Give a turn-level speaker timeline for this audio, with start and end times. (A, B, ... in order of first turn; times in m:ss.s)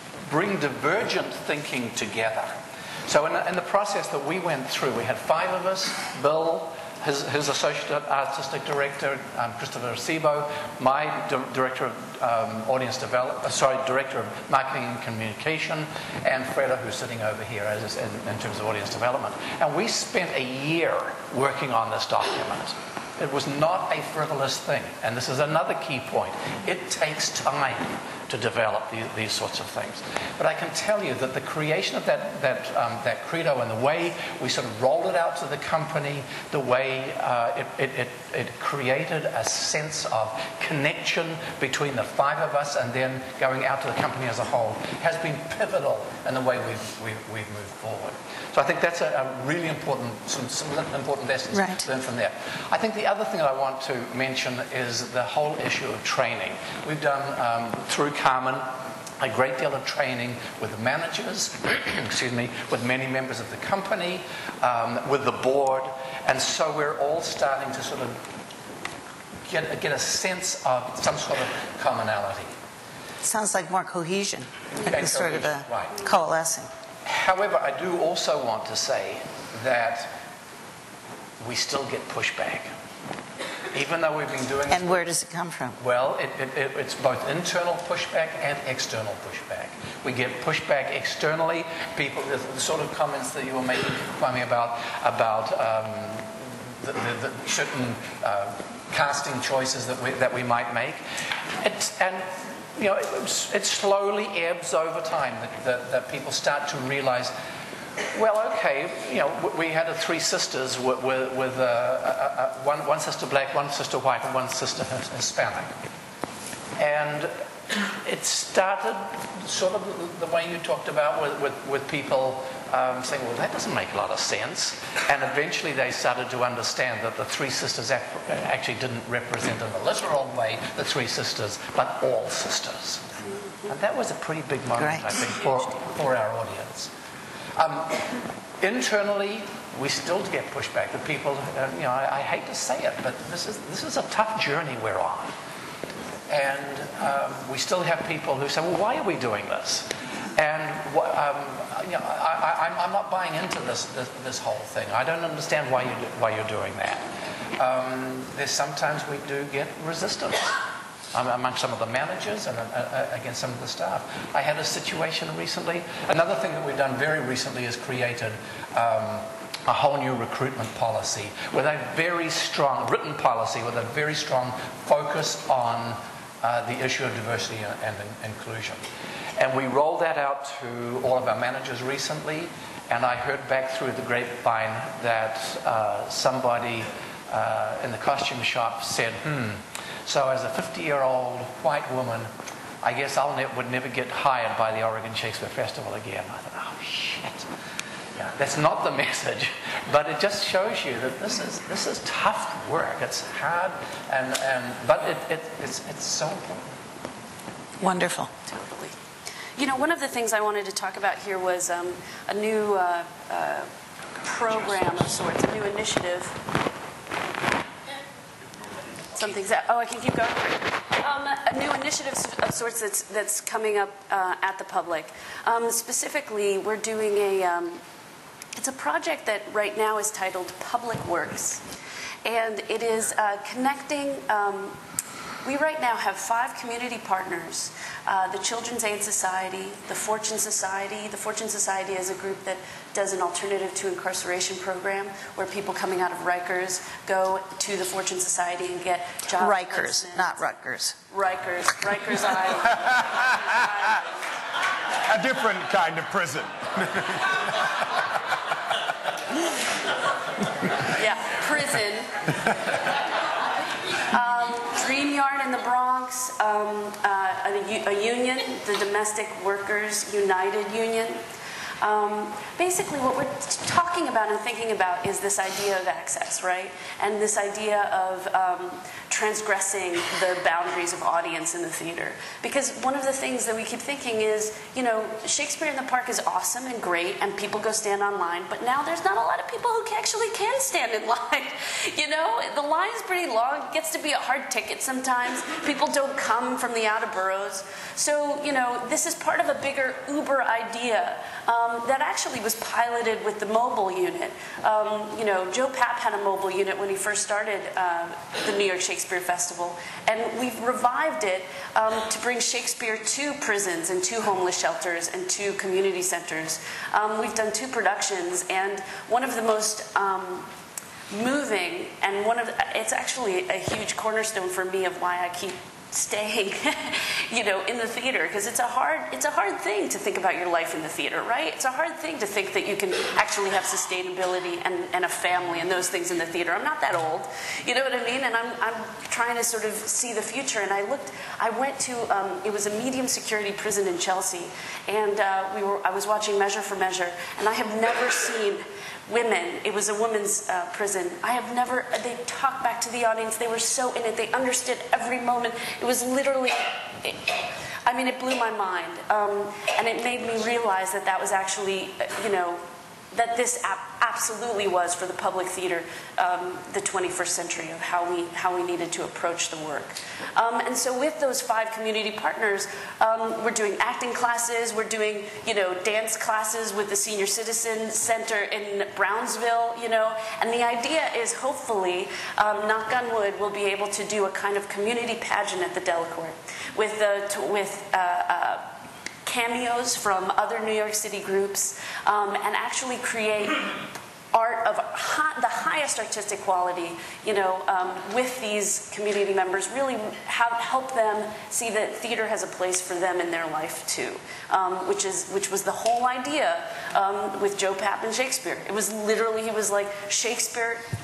0:00.3-1:08.2 A
0:51.5-0:51.9 B
1:09.5-1:12.6 A
1:13.2-1:16.7 B
1:14.8-1:16.0 A
1:17.0-1:20.2 A
1:21.4-1:22.7 A
1:23.7-1:25.0 A
1:24.7-1:25.8 B
1:25.8-1:41.0 A
1:41.6-1:47.4 A
1:48.1-1:55.8 A
1:56.8-1:57.4 A
1:58.0-2:13.1 A
2:13.7-2:16.9 A
2:14.8-2:15.3 B
2:17.6-2:18.0 A
2:18.6-2:25.3 A
2:26.3-2:58.8 A
2:59.4-3:12.3 A
3:12.8-3:17.5 A
3:18.2-3:26.8 A
3:27.8-3:28.3 B
3:28.4-3:29.0 C
3:29.6-3:33.7 C
3:34.2-3:36.4 C
3:39.2-3:47.8 C
3:48.6-3:51.6 C
3:52.2-3:54.8 C
3:55.4-4:10.4 C
4:09.4-4:11.0 B
4:11.1-4:14.0 C
4:15.0-4:17.5 D
4:21.0-4:22.3 C
4:24.1-4:31.2 C
4:31.8-5:20.5 C
5:21.1-6:28.7 C
6:29.2-6:50.8 C